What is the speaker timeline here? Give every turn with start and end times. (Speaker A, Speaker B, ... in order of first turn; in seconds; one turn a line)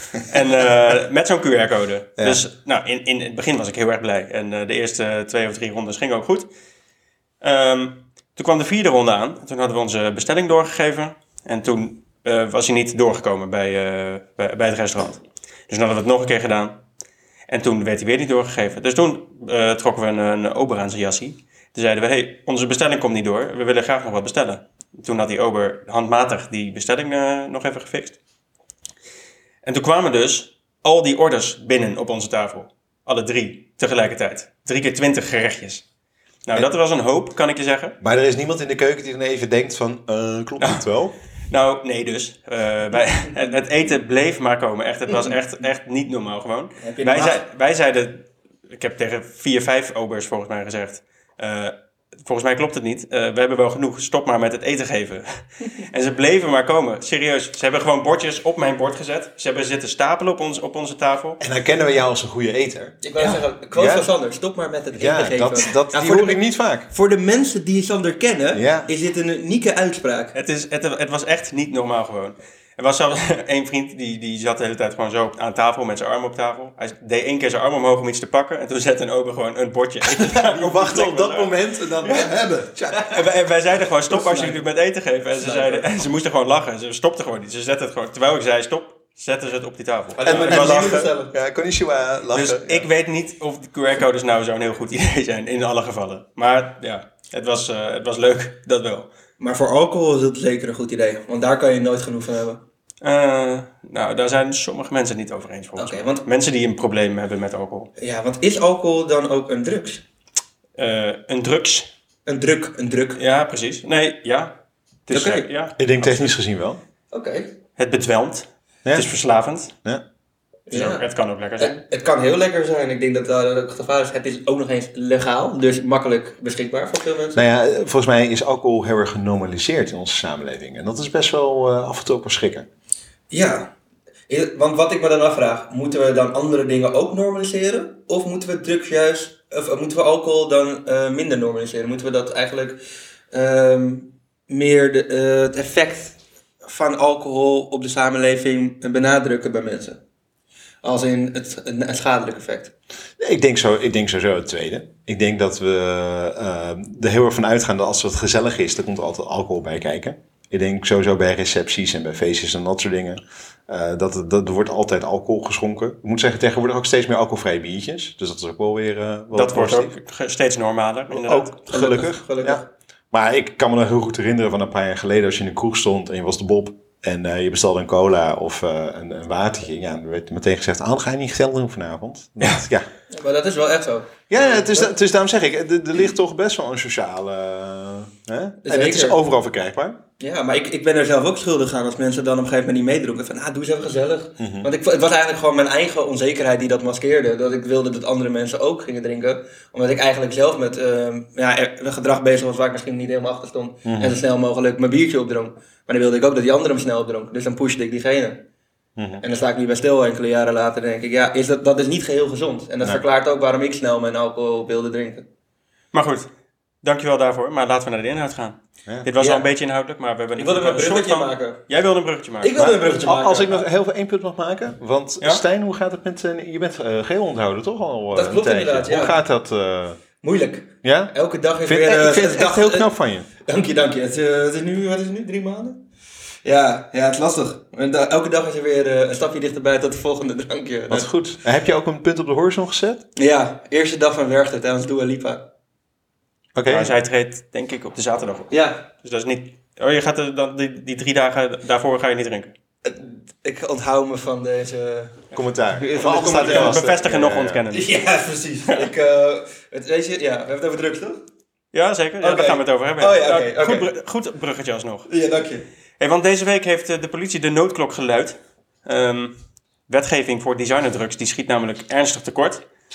Speaker A: 0.2-6.5
Speaker B: 2.2-2.4
Speaker A: 7.4-16.8
Speaker A: 17.5-28.2
Speaker A: 29.6-35.8
Speaker A: 36.5-38.0
Speaker B: 38.0-41.1
Speaker A: 40.6-40.8
Speaker A: 41.5-61.4
Speaker C: 46.8-47.4
Speaker B: 61.4-64.1
Speaker C: 63.0-70.3
Speaker B: 64.9-66.9
Speaker B: 68.5-68.9
Speaker A: 70.3-81.5
Speaker B: 80.1-83.2
Speaker A: 83.0-91.0
Speaker C: 84.1-84.5
Speaker C: 85.4-85.8
Speaker C: 90.2-91.3
Speaker B: 90.3-92.9
Speaker A: 92.3-99.1
Speaker C: 99.4-102.6
Speaker A: 103.0-107.9
Speaker C: 105.8-106.2
Speaker C: 108.0-110.0
Speaker A: 110.8-111.9
Speaker C: 112.2-113.2
Speaker A: 113.2-116.3
Speaker C: 115.1-115.5
Speaker B: 115.8-116.8
Speaker C: 117.1-117.5
Speaker A: 117.8-119.7
Speaker B: 118.8-119.1
Speaker C: 120.7-127.4
Speaker A: 120.7-121.8
Speaker B: 127.3-132.7
Speaker C: 133.3-133.7
Speaker C: 134.3-142.8
Speaker C: 143.3-150.0
Speaker C: 150.8-152.7
Speaker B: 153.2-169.9
Speaker A: 169.3-171.6
Speaker B: 171.2-182.9
Speaker C: 171.7-172.7
Speaker C: 183.1-184.9
Speaker B: 184.3-190.0
Speaker C: 188.6-189.2
Speaker C: 190.2-208.4
Speaker B: 194.4-194.7
Speaker B: 203.8-204.2
Speaker B: 209.0-209.2
Speaker C: 209.2-215.3
Speaker A: 215.9-216.3
Speaker A: 216.8-222.5
Speaker C: 219.2-219.4
Speaker C: 220.4-221.6
Speaker C: 222.4-223.7
Speaker B: 222.6-230.0
Speaker C: 228.1-229.2
Speaker C: 230.2-232.9
Speaker B: 230.8-233.3
Speaker C: 233.4-235.8
Speaker C: 236.4-241.1
Speaker B: 240.9-243.0
Speaker C: 243.2-245.4
Speaker B: 246.5-246.9
Speaker A: 246.7-252.5
Speaker C: 248.5-248.8
Speaker C: 252.8-256.8
Speaker B: 255.3-257.6
Speaker A: 256.1-257.9
Speaker C: 257.7-261.2
Speaker A: 261.7-265.1
Speaker C: 262.2-263.9
Speaker C: 265.1-265.6
Speaker A: 266.0-272.6